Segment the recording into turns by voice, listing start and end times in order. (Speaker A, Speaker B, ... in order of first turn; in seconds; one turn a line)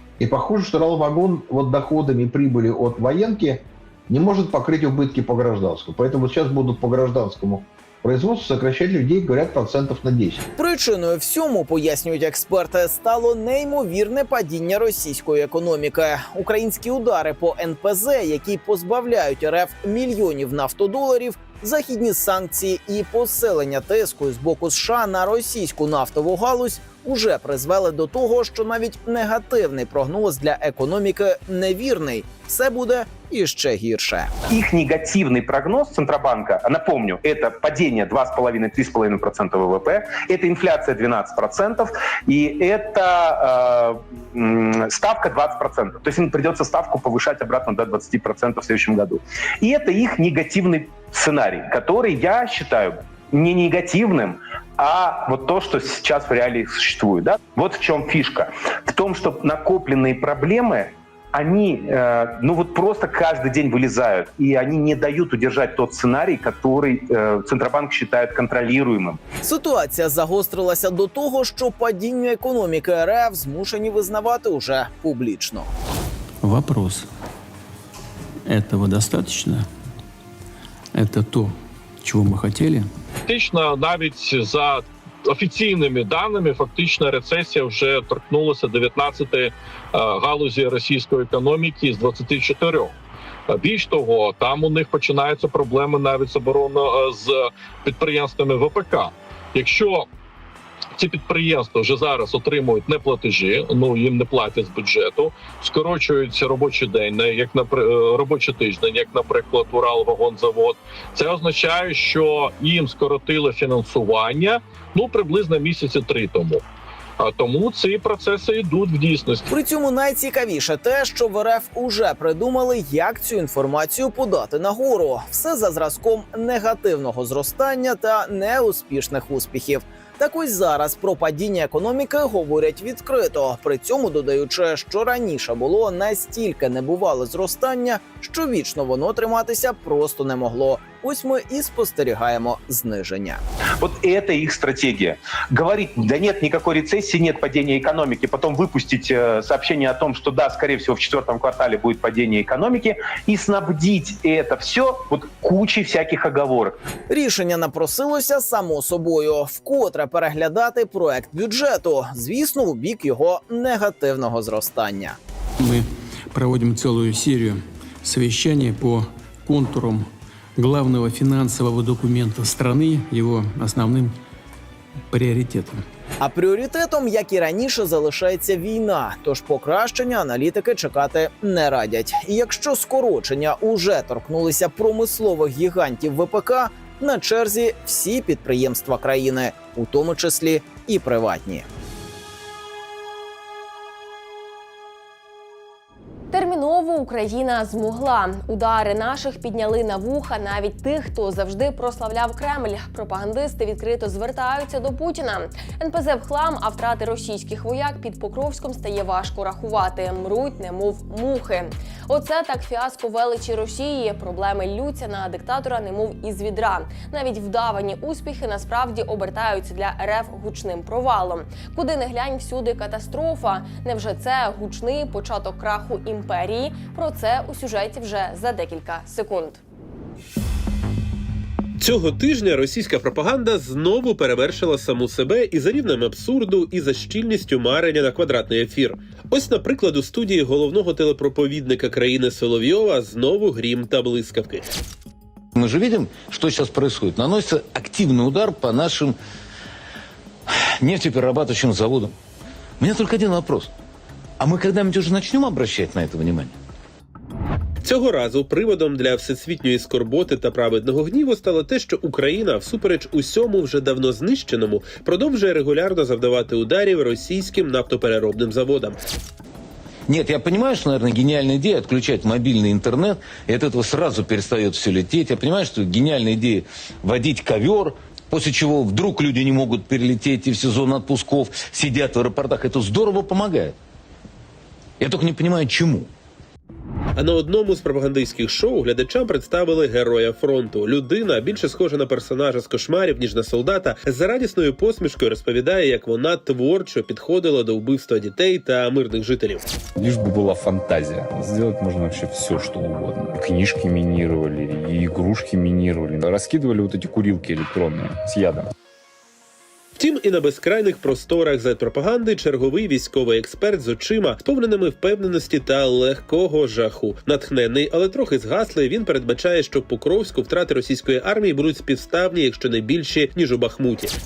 Speaker A: 0.2-10.4
Speaker B: 10.6-34.3
Speaker C: 34.5-69.2
Speaker B: 69.4-75.7
Speaker D: 76.4-77.1
Speaker D: 78.5-79.7
Speaker D: 80.9-82.9
Speaker E: 83.3-92.9
Speaker E: 93.5-100.1
Speaker E: 101.0-116.6
Speaker E: 117.2-119.5
Speaker B: 119.5-143.4
Speaker C: 143.8-156.8
Speaker B: 157.1-165.2
Speaker D: 165.6-174.2
Speaker D: 175.1-175.8
Speaker B: 176.2-191.7
Speaker F: 196.3-229.6
Speaker G: 231.8-244.7
Speaker H: 245.6-249.2
Speaker H: 250.8-252.2
Speaker H: 252.8-253.7
Speaker H: 254.4-256.5
Speaker G: 257.8-269.0
Speaker H: 270.1-283.8
Speaker H: 285.0-286.1
Speaker G: 287.2-299.6
Speaker I: 300.0-308.6
Speaker G: 310.0-324.1